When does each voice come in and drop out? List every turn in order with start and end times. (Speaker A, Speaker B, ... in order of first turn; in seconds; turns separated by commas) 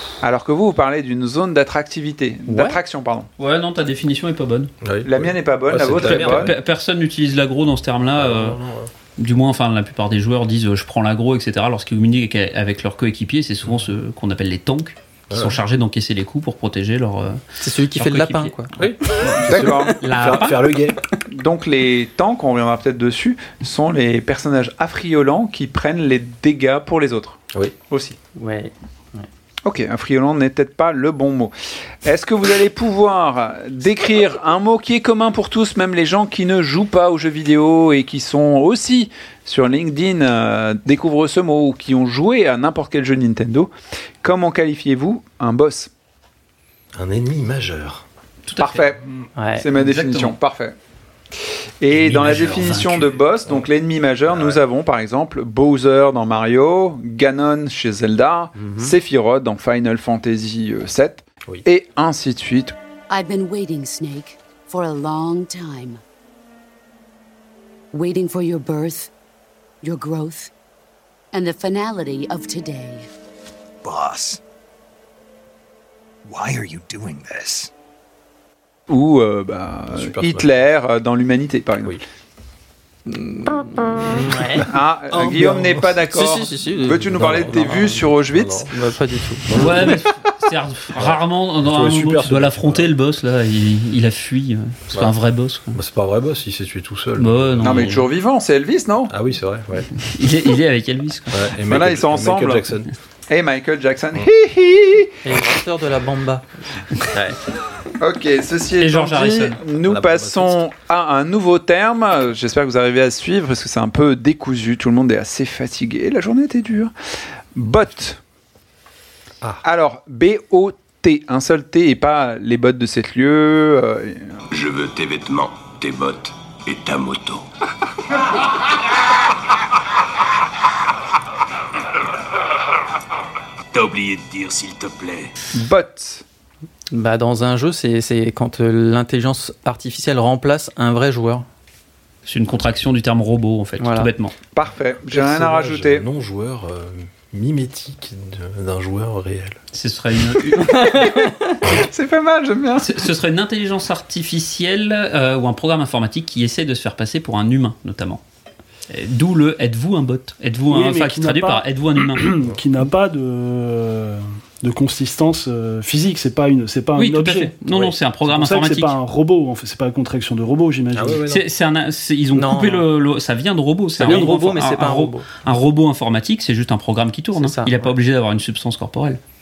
Speaker A: 0.2-3.3, Speaker B: 2.5-2.8, Speaker C: 3.4-4.7, Speaker D: 4.8-6.5, Speaker A: 5.0-6.5, Speaker C: 5.8-8.6, Speaker D: 8.2-8.9, Speaker C: 9.2-18.5, Speaker D: 15.3-15.6, Speaker B: 17.6-18.7, Speaker D: 18.8-21.0, Speaker C: 19.1-20.8, Speaker A: 19.5-20.0, Speaker A: 21.3-28.2, Speaker B: 28.4-29.3, Speaker A: 29.6-31.5, Speaker A: 32.0-43.7, Speaker A: 44.2-45.9, Speaker D: 46.9-48.0, Speaker C: 48.5-48.9, Speaker A: 48.6-49.0, Speaker B: 49.4-49.6, Speaker A: 49.6-50.8, Speaker C: 49.7-50.4, Speaker A: 51.8-62.7, Speaker C: 51.9-53.2, Speaker D: 52.3-52.7, Speaker D: 54.3-54.6, Speaker D: 58.6-58.9, Speaker E: 63.1-66.0, Speaker E: 67.9-69.1, Speaker E: 69.8-70.5, Speaker E: 71.3-73.0, Speaker F: 73.8-74.4, Speaker F: 76.2-77.7, Speaker A: 78.9-82.0, Speaker D: 79.9-80.5, Speaker B: 83.1-84.7, Speaker D: 84.1-86.0, Speaker A: 84.7-88.7, Speaker B: 86.1-88.1, Speaker D: 87.0-88.7, Speaker B: 88.7-89.7, Speaker D: 89.4-90.0, Speaker C: 89.5-95.8, Speaker D: 91.0-92.9, Speaker D: 95.7-98.0, Speaker C: 97.2-98.1, Speaker A: 97.6-99.1, Speaker D: 99.1-99.9, Speaker C: 100.0-101.5, Speaker D: 101.3-102.9, Speaker A: 101.7-102.7, Speaker A: 103.3-105.1, Speaker B: 105.2-106.5, Speaker D: 107.1-107.4, Speaker A: 108.0-116.9, Speaker C: 108.8-109.6, Speaker D: 109.8-110.6, Speaker A: 117.5-118.2, Speaker A: 119.6-124.3, Speaker G: 124.5-127.5, Speaker G: 133.7-135.3, Speaker A: 135.5-136.2, Speaker B: 136.9-141.4, Speaker C: 142.2-144.3, Speaker B: 143.8-144.1, Speaker A: 144.5-146.0, Speaker D: 145.1-149.6, Speaker C: 149.7-151.1, Speaker B: 150.7-151.6, Speaker A: 151.7-153.1, Speaker C: 152.8-158.2, Speaker C: 158.9-162.3, Speaker H: 160.7-167.6, Speaker C: 166.9-168.9, Speaker H: 168.2-171.2, Speaker D: 170.9-171.5, Speaker C: 171.3-179.2, Speaker B: 172.3-172.8, Speaker B: 174.0-175.2, Speaker B: 177.3-177.9